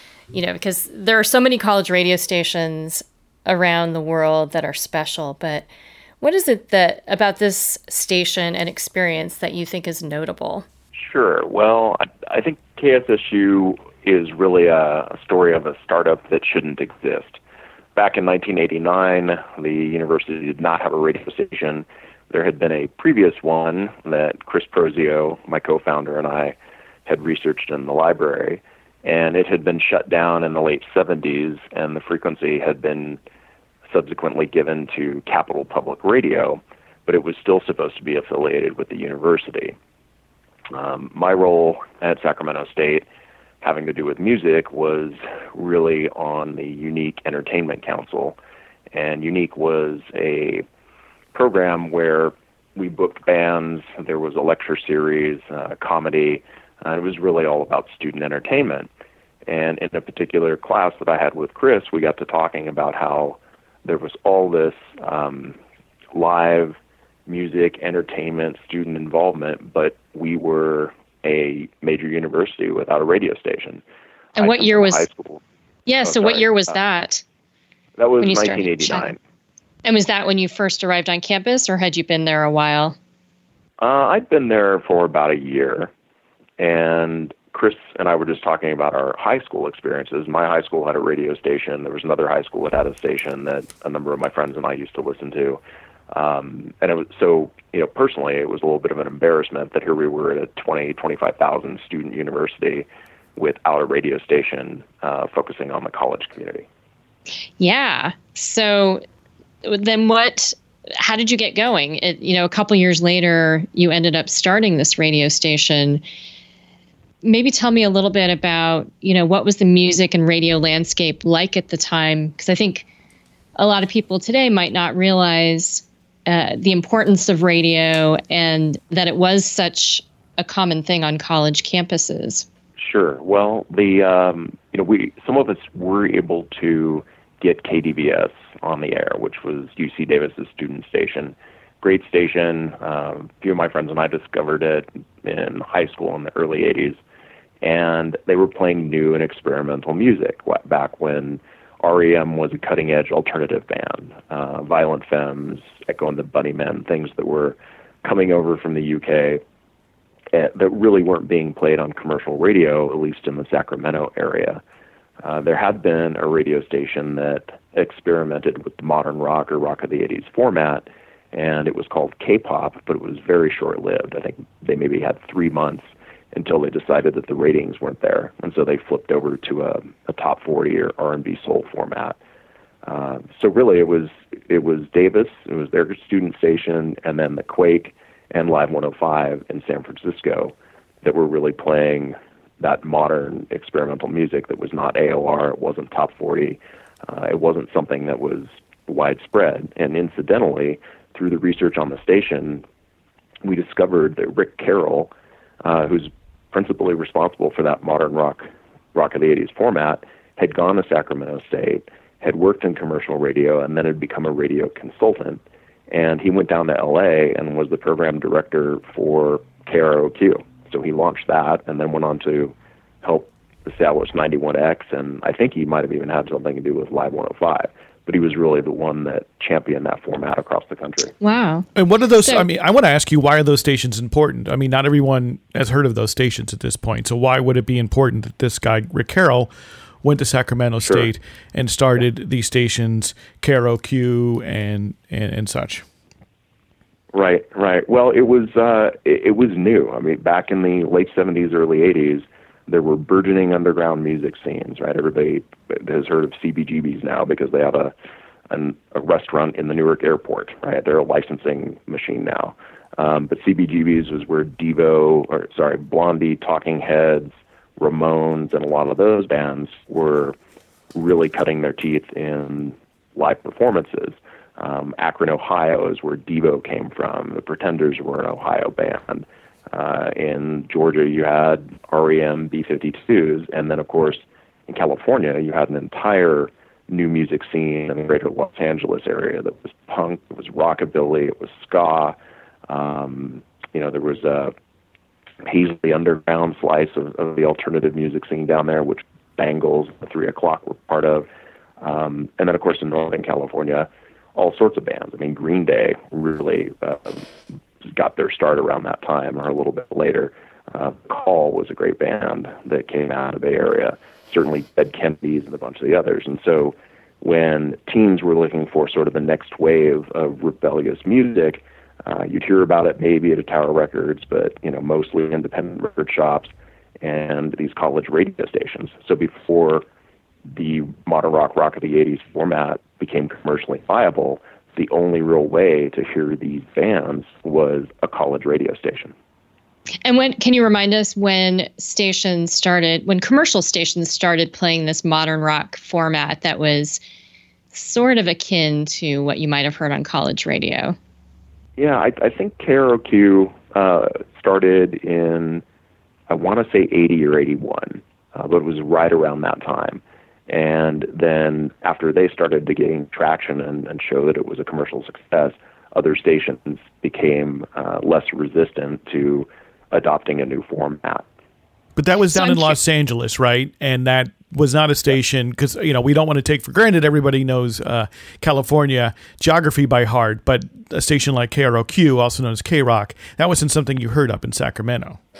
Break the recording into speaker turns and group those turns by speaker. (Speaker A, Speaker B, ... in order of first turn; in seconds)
Speaker A: 0.3-5.7, 6.2-10.7, 74.3-75.0, 75.9-77.2, 78.2-79.1, 79.8-83.0, 107.6-109.0, 109.6-116.0, 117.2-122.9, 123.5-132.4, 231.2-231.7, 340.0-347.0, 347.7-350.9, 372.3-372.7
Speaker B: 10.9-17.4, 17.9-33.2, 33.9-39.8, 40.7-43.0, 43.6-48.4, 48.9-50.6, 51.3-58.9, 59.5-65.6, 66.1-73.8, 74.4-75.4, 76.0-76.8, 78.0-79.2, 83.8-85.9, 86.6-95.6, 96.1-106.7, 132.8-147.0, 147.6-159.4, 160.3-164.6, 165.2-182.2, 182.8-202.6, 203.4-205.1, 205.6-231.1, 240.8-241.1, 247.1-257.9, 258.5-270.4, 270.9-292.1, 292.7-294.5, 295.4-301.3, 301.8-307.2, 307.9-329.8, 330.5-339.1, 351.8-355.6, 356.3-371.2
Speaker C: 231.8-239.5, 240.0-245.8, 371.9-385.2